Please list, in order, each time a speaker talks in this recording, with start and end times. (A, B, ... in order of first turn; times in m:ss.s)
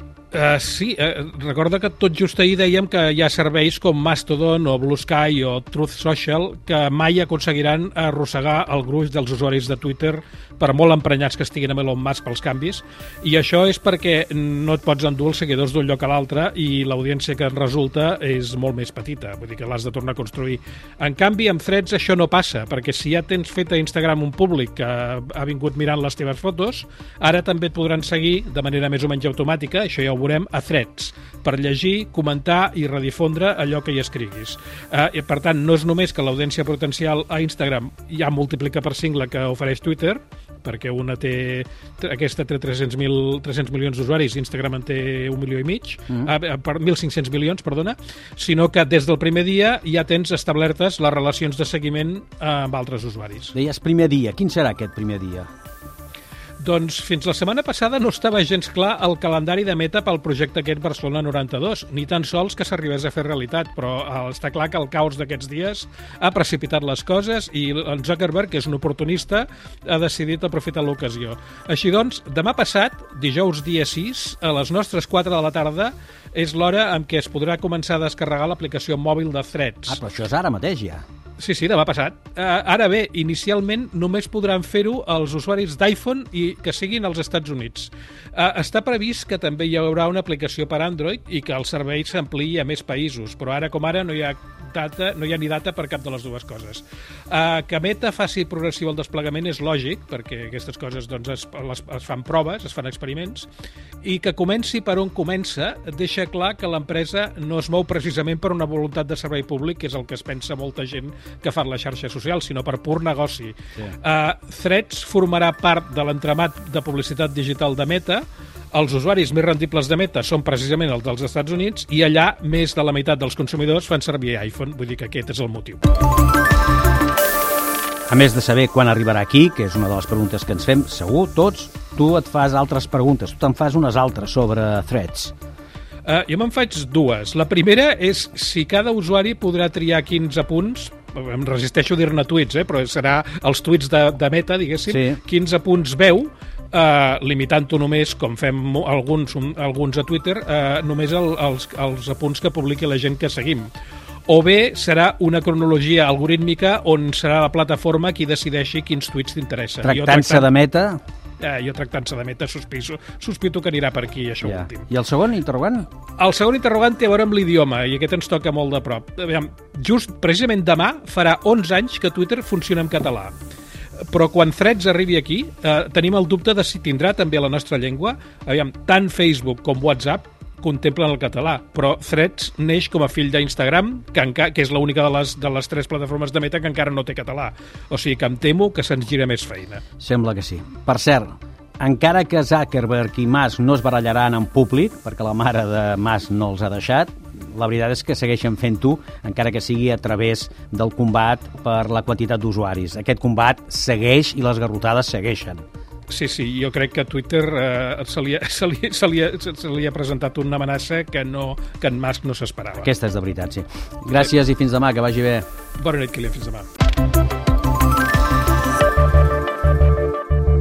0:00.3-0:53.5 A
0:53.5-0:55.5 B
0:56.6-1:20.0 A
1:19.9-1:21.0 B
1:21.4-1:43.5 A
1:44.0-2:05.8 A
2:08.1-2:15.3 B
2:16.0-2:33.7 A
2:24.9-2:25.2 B
2:34.3-2:40.5 A
2:39.8-2:41.0 B
2:41.4-2:44.8 A
2:44.4-2:45.9 B
2:46.2-2:53.3 A
2:54.1-3:09.8 A
3:10.0-3:25.6 B
3:26.1-3:32.9 A
3:32.8-3:35.4 B
3:35.8-3:36.6 A